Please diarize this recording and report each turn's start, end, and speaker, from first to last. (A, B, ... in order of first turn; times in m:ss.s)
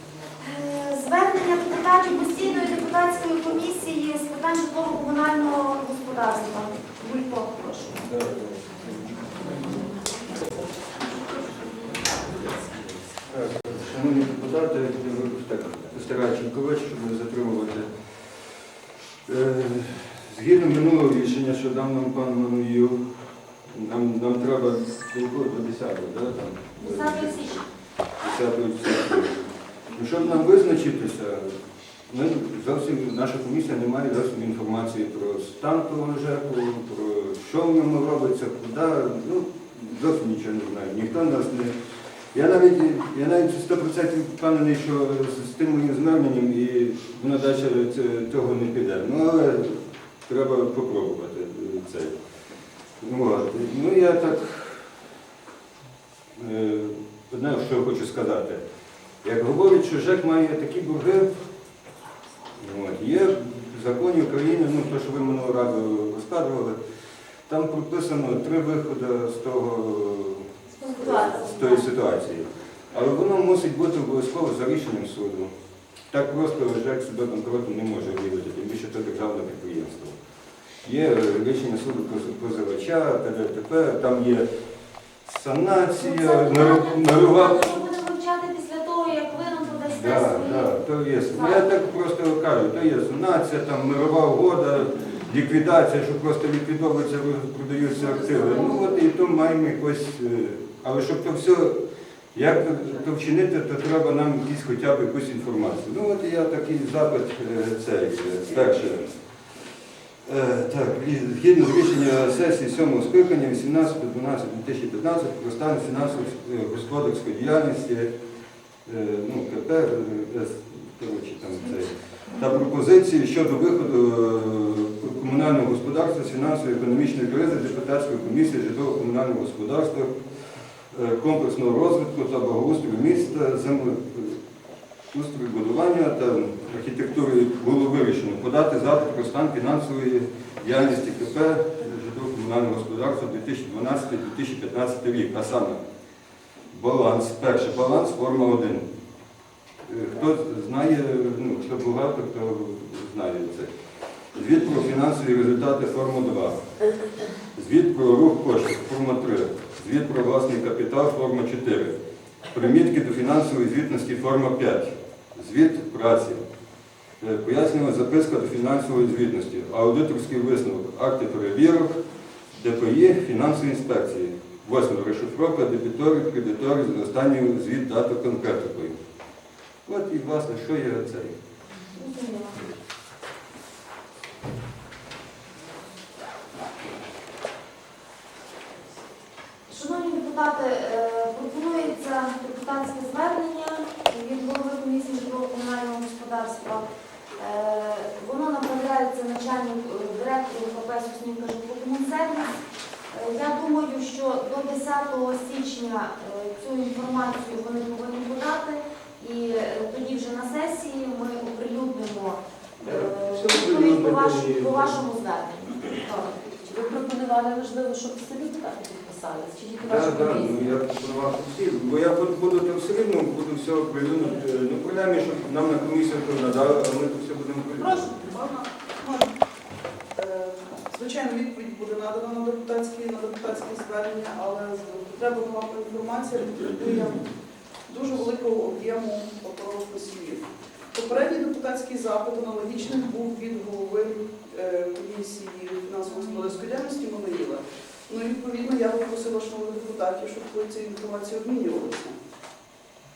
0:00.4-0:08.0 A
0:08.0-0:09.8 B
0:13.3-0:17.9 B
0:19.2-0:23.0 B
0:23.7-0:27.4 B
0:26.8-0:27.7 A
0:28.2-0:29.3 B
0:29.9-0:31.6 B
0:32.1-0:41.7 B
0:42.3-0:52.2 B
0:53.0-0:54.9 B
0:56.3-0:58.6 B
0:59.2-1:01.4 B
1:02.6-1:06.8 B
1:07.5-1:15.5 B
1:10.8-1:11.8 A
1:16.1-1:20.2 B
1:20.8-1:24.5 B
1:25.2-1:27.7 B
1:26.0-1:30.7 A
1:29.9-1:41.8 B
1:31.3-1:31.6 A
1:42.3-1:49.1 B
1:50.2-1:58.1 B
1:58.8-2:10.2 B
2:10.9-2:14.4 B
2:15.1-2:25.8 B
2:26.7-2:28.9 B
2:29.8-2:33.7 B
2:34.3-2:36.6 B
2:37.5-2:41.9 B
2:42.5-2:46.4 B
2:47.2-2:59.0 B
2:59.8-3:01.4 B
3:01.9-3:02.6 A
3:09.7-3:22.6 A
3:23.1-3:36.5 A
3:32.8-3:34.9 B
3:36.1-3:40.7 C
3:39.8-3:48.1 B
3:48.1-3:49.3 D
3:50.2-3:57.2 D
3:57.9-4:12.1 D